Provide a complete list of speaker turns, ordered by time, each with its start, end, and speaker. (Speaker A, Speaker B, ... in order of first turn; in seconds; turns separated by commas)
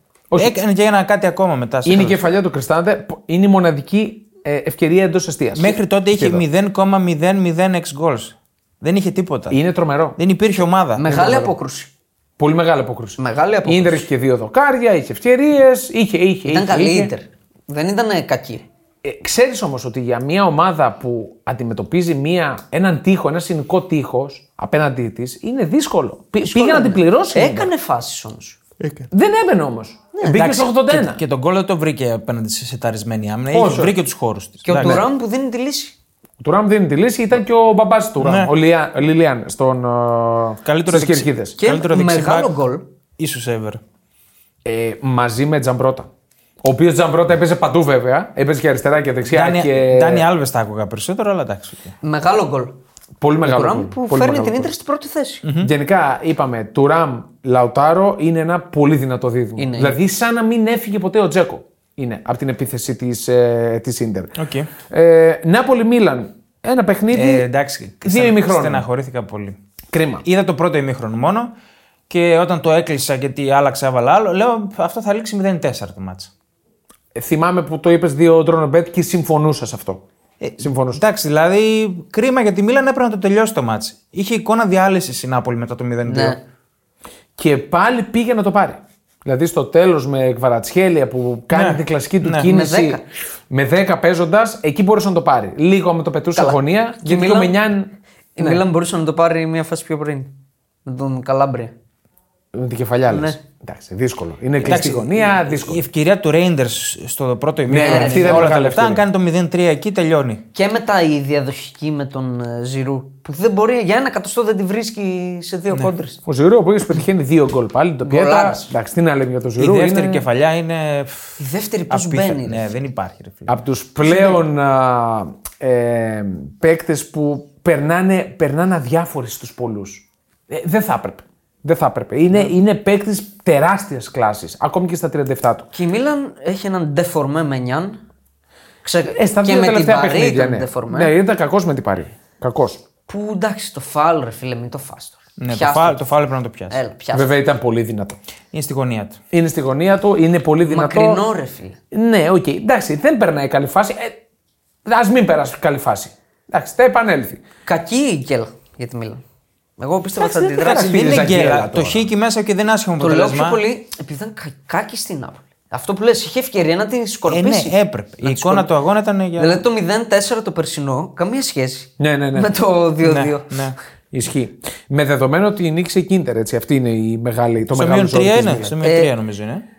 Speaker A: 0.3-2.2, Speaker B: 1.8-6.4, Speaker A: 5.5-9.6, Speaker B: 9.5-10.2, Speaker A: 10.2-11.0, Speaker C: 11.0-11.9, Speaker B: 11.0-11.5, Speaker B: 12.4-17.1, Speaker C: 13.2-14.0, Speaker C: 16.5-18.6, Speaker B: 19.0-27.7, Speaker C: 26.4-28.6, Speaker A: 28.8-29.1, Speaker B: 29.1-31.2, Speaker C: 30.1-30.5, Speaker A: 30.3-35.0, Speaker B: 33.5-34.0, Speaker C: 34.6-35.9, Speaker B: 36.4-41.6, Speaker A: 38.2-38.5, Speaker A: 40.6-42.5, Speaker C: 41.6-42.8, Speaker A: 43.2-43.8, Speaker B: 44.6-46.1, Speaker B: 46.6-50.3, Speaker A: 49.3-51.9, Speaker C: 52.0-52.8, Speaker B: 53.2-54.7, Speaker C: 53.4-55.4, Speaker A: 55.4-55.7, Speaker B: 55.6-64.4, Speaker C: 59.6-60.0, Speaker A: 64.4-64.7, Speaker B: 64.9-67.5, Speaker A: 67.1-69.6, Speaker B: 68.0-68.8, Speaker B: 69.9-70.2, Speaker A: 70.2-71.5, Speaker A: 72.1-76.3, Speaker B: 77.1-80.0, Speaker A: 80.4-86.4, Speaker B: 80.6-81.0, Speaker C: 86.0-86.4, Speaker B: 87.4-98.6, Speaker A: 91.5-92.5, Speaker C: 92.4-93.0, Speaker C: 96.3-97.6, Speaker C: 98.3-100.3, Speaker C: 100.8-101.7, Speaker B: 102.5-105.8, Speaker C: 103.1-103.4, Speaker A: 104.6-110.4, Speaker B: 107.7-109.0, Speaker C: 107.8-108.5, Speaker C: 110.5-116.2, Speaker B: 116.2-120.2, Speaker C: 118.0-118.7, Speaker A: 119.6-123.5, Speaker C: 121.4-122.7, Speaker B: 123.5-135.7, Speaker C: 135.7-138.0, Speaker C: 138.8-141.1, Speaker B: 139.1-142.8, Speaker C: 143.1-146.0, Speaker A: 145.4-146.8, Speaker C: 146.7-147.4, Speaker B: 147.1-148.2, Speaker A: 148.5-149.2, Speaker B: 149.3-151.2, Speaker C: 150.7-151.8, Speaker B: 151.9-154.2, Speaker B: 154.8-157.4, Speaker C: 157.7-159.2, Speaker C: 159.8-161.1, Speaker B: 160.2-162.1, Speaker A: 160.6-163.6, Speaker C: 163.0-168.7, Speaker A: 167.3-169.6, Speaker C: 169.4-173.6, Speaker B: 172.0-172.5, Speaker A: 173.0-173.8, Speaker B: 174.1-178.8, Speaker A: 177.7-179.6, Speaker C: 178.8-179.1